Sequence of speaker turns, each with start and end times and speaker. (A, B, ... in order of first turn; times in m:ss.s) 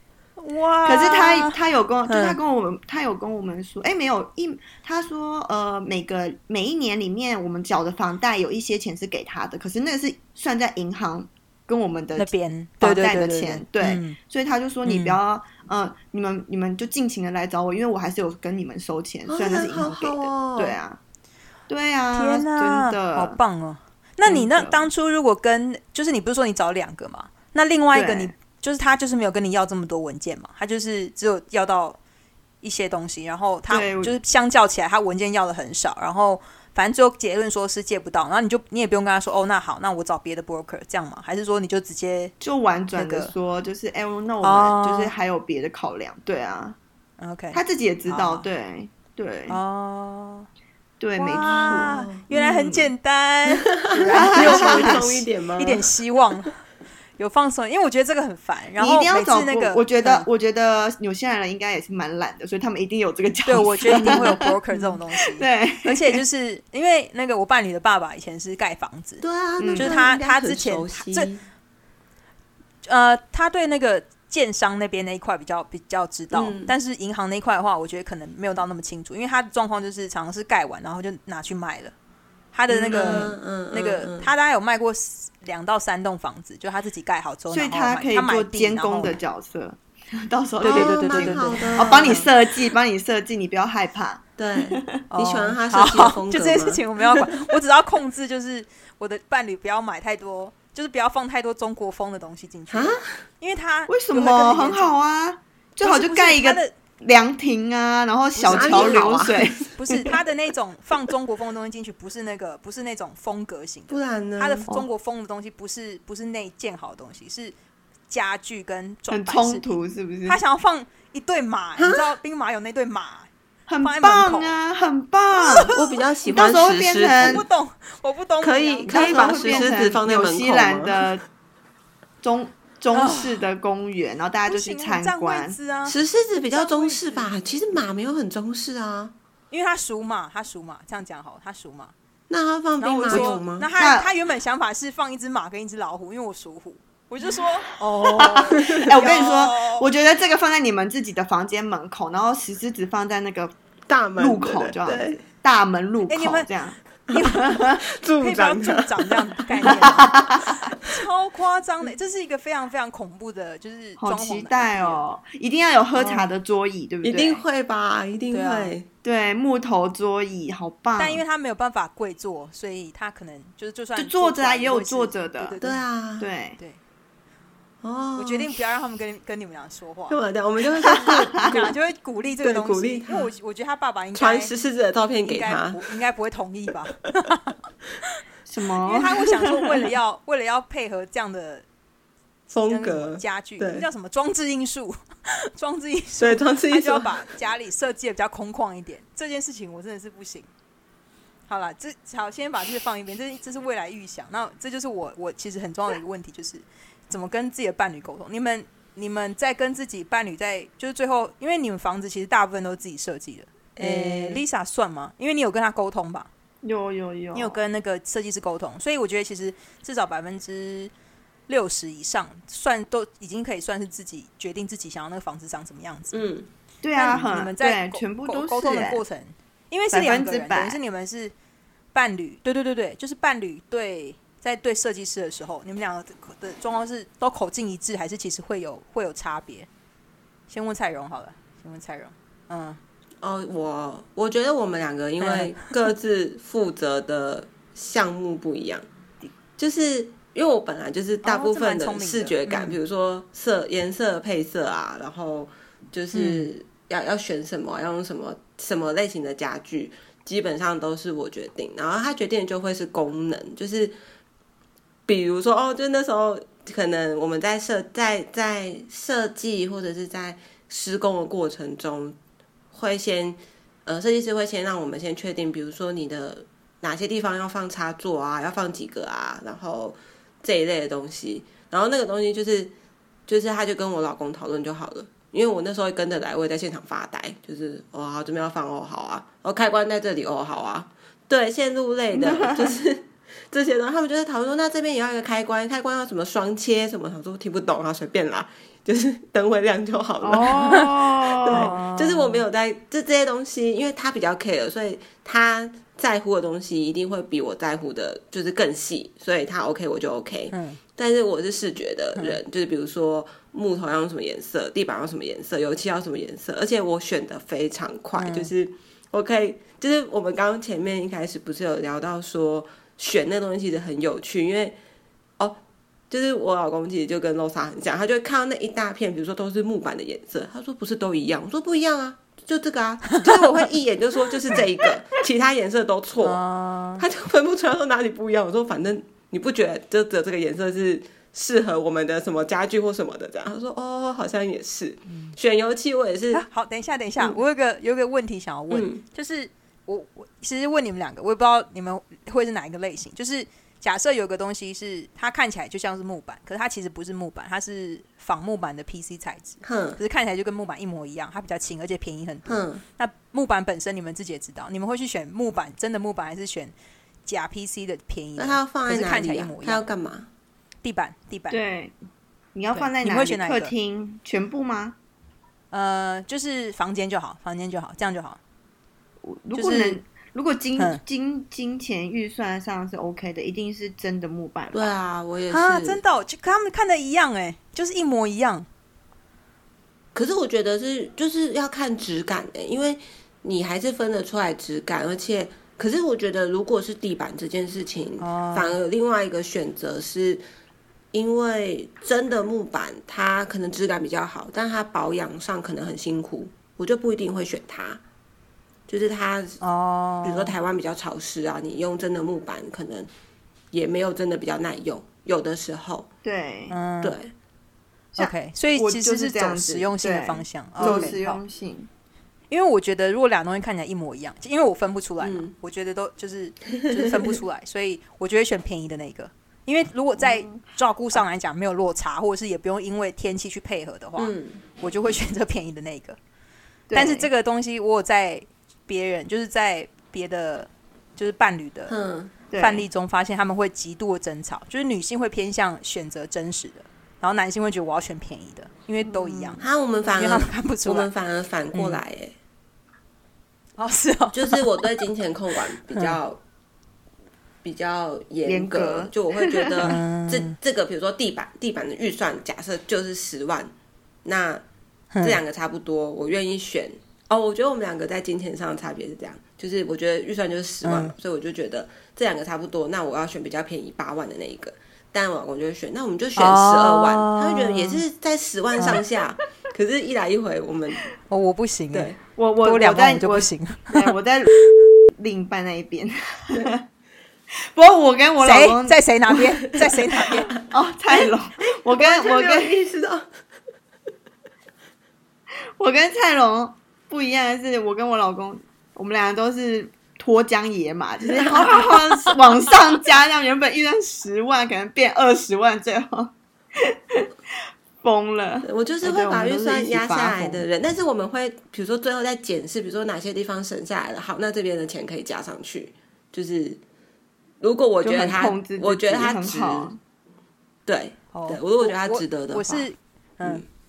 0:00.4-0:01.6 A
0:00.8-0:21.0 B
0:02.1-0:02.4 A
0:12.2-0:14.2 A
0:14.8-0:15.2 A
0:19.3-0:20.8 C
0:21.7-0:23.4 B
0:22.1-0:32.0 A
0:24.2-0:24.9 B
0:27.9-0:28.3 B
0:32.6-0:42.3 A
0:33.7-0:34.2 B
0:42.4-0:46.8 B
0:43.0-0:43.3 A
0:44.4-0:45.1 A
0:47.2-0:48.5 A
0:47.5-0:49.6 B
0:49.5-0:50.5 A
0:51.0-0:52.1 B
0:51.2-0:56.6 A
0:51.7-0:52.9 C
0:53.5-0:55.9 C
0:54.1-0:55.2 B
0:57.2-1:00.3 A
0:58.8-1:04.6 B
1:03.5-1:09.2 A
1:03.9-1:05.0 C
1:05.2-1:06.2 B
1:09.2-1:11.4 C
1:09.6-1:10.0 B
1:09.8-1:11.3 A
1:12.9-1:21.9 A
1:16.3-1:16.7 C
1:22.5-1:29.2 A
1:22.7-1:24.3 C
1:22.9-1:23.3 B
1:27.5-1:35.0 B
1:30.6-1:32.3 A
1:30.6-1:32.3 C
1:34.4-1:37.6 C
1:35.1-1:44.9 A
1:42.7-1:43.2 C
1:43.9-1:50.1 B
1:45.8-1:46.7 A
1:48.3-1:49.1 A
1:48.5-1:49.7 C
1:49.8-1:57.5 A
1:53.9-1:54.8 C
1:58.1-1:59.7 A
1:59.1-2:00.4 B
2:00.3-2:03.3 A
2:01.8-2:02.1 C
2:03.7-2:07.4 B
2:03.8-2:04.6 A
2:05.4-2:05.9 A
2:05.7-2:07.5 C
2:07.2-2:09.8 A
2:08.4-2:11.2 C
2:08.9-2:11.2 B
2:12.2-2:15.6 B
2:12.9-2:13.5 A
2:14.5-2:16.0 A
2:15.9-2:19.1 C
2:16.5-2:17.4 A
2:19.5-2:21.9 A
2:22.3-2:23.7 C
2:22.8-2:29.9 A
2:23.1-2:24.1 B
2:28.0-2:33.5 B
2:28.6-2:29.0 C
2:33.9-2:35.2 C
2:34.2-2:37.8 B
2:36.1-2:36.5 A
2:37.1-2:37.6 A
2:37.4-2:39.7 C
2:38.2-2:45.0 A
2:39.7-2:40.5 B
2:44.0-2:47.4 B
2:46.0-2:46.3 A
2:47.0-2:48.9 C
2:48.3-2:48.8 A
2:49.0-2:51.2 B
2:51.0-2:55.8 A
2:54.0-2:55.6 B
2:55.6-2:56.3 C
2:56.2-2:56.6 B
2:57.8-2:58.6 C
2:58.2-3:00.2 A
3:00.1-3:01.8 C
3:00.8-3:04.5 A
3:02.4-3:03.3 C
3:04.1-3:05.9 C
3:05.2-3:07.6 A
3:08.5-3:09.7 B
3:08.8-3:11.6 A
3:12.5-3:13.9 C
3:12.7-3:20.5 A
3:16.2-3:17.3 C
3:21.5-3:36.3 A
3:33.8-3:34.4 C
3:36.6-3:37.6 B
3:37.3-3:40.9 A
3:41.5-3:46.2 A
3:46.1-3:46.5 C
3:46.8-3:49.0 B
3:46.9-3:51.3 A
3:49.9-3:50.8 B
3:51.9-3:59.7 A
4:00.5-4:02.8 A
4:03.2-4:08.8 C
4:05.2-4:05.7 A
4:09.6-4:24.0 C
4:11.2-4:12.8 A
4:16.1-4:16.5 A
4:25.1-4:32.2 C
4:32.7-4:42.7 C
4:43.3-5:24.8 C
4:52.1-4:52.8 B
5:00.2-5:01.8 B
5:00.5-5:00.9 A
5:01.5-5:02.4 A
5:10.5-5:10.8 A
5:18.2-5:18.5 A
5:26.1-5:36.4 C
5:33.2-5:33.4 A
5:36.2-5:37.0 A
5:37.0-5:46.4 C
5:45.1-5:45.4 A
5:46.3-6:06.7 A
5:48.7-5:49.0 C
5:59.6-6:00.0 C
6:02.5-6:02.8 C
6:07.2-6:09.8 A
6:08.4-6:10.3 C
6:10.8-6:11.6 A
6:11.5-6:12.0 B
6:12.5-6:15.0 B
6:12.7-6:13.7 A
6:15.7-6:18.4 A
6:19.2-6:24.9 B
6:19.5-6:20.0 A
6:24.7-6:26.0 C
6:25.5-6:28.7 A
6:30.2-6:40.4 C
6:38.2-6:38.8 A
6:41.1-6:48.0 C
6:48.9-6:49.6 C
6:49.6-6:50.6 A
6:50.2-6:53.1 C
6:53.7-6:56.1 C
6:56.2-6:56.8 B
6:56.7-6:57.2 A
6:57.0-6:57.3 C
6:58.1-7:01.9 B
6:58.2-7:01.4 A
7:00.8-7:01.2 C
7:02.5-7:16.2 A
7:05.2-7:05.5 C
7:10.2-7:10.6 B
7:14.2-7:14.6 C
7:16.9-7:17.3 B
7:16.9-7:22.0 A
7:21.9-7:22.4 C
7:22.5-7:22.8 B
7:22.6-7:29.7 A
7:29.1-7:29.6 B
7:29.6-7:32.4 C
7:30.2-7:31.1 A
7:31.7-7:32.0 A
7:33.8-7:34.7 A
7:34.3-7:36.4 C
7:35.9-7:36.2 A
7:37.6-7:43.7 C
7:38.5-7:39.9 B
7:39.8-7:40.6 A
7:44.2-7:44.6 C
7:45.1-7:45.4 A
7:45.2-8:01.1 C
7:50.8-7:51.1 A
7:56.4-7:58.0 A
8:01.3-8:04.9 A
8:01.9-8:02.2 C
8:02.4-8:04.5 B
8:05.2-8:06.8 B
8:07.7-8:09.4 B
8:08.4-8:10.5 A
8:10.5-8:12.8 B
8:11.7-8:13.2 C
8:15.5-8:27.3 B
8:21.6-8:22.0 C
8:28.0-8:30.7 B
8:28.6-8:36.8 C
8:37.6-8:39.9 C
8:38.0-8:40.0 B
8:40.9-8:42.9 C
8:41.3-8:43.6 A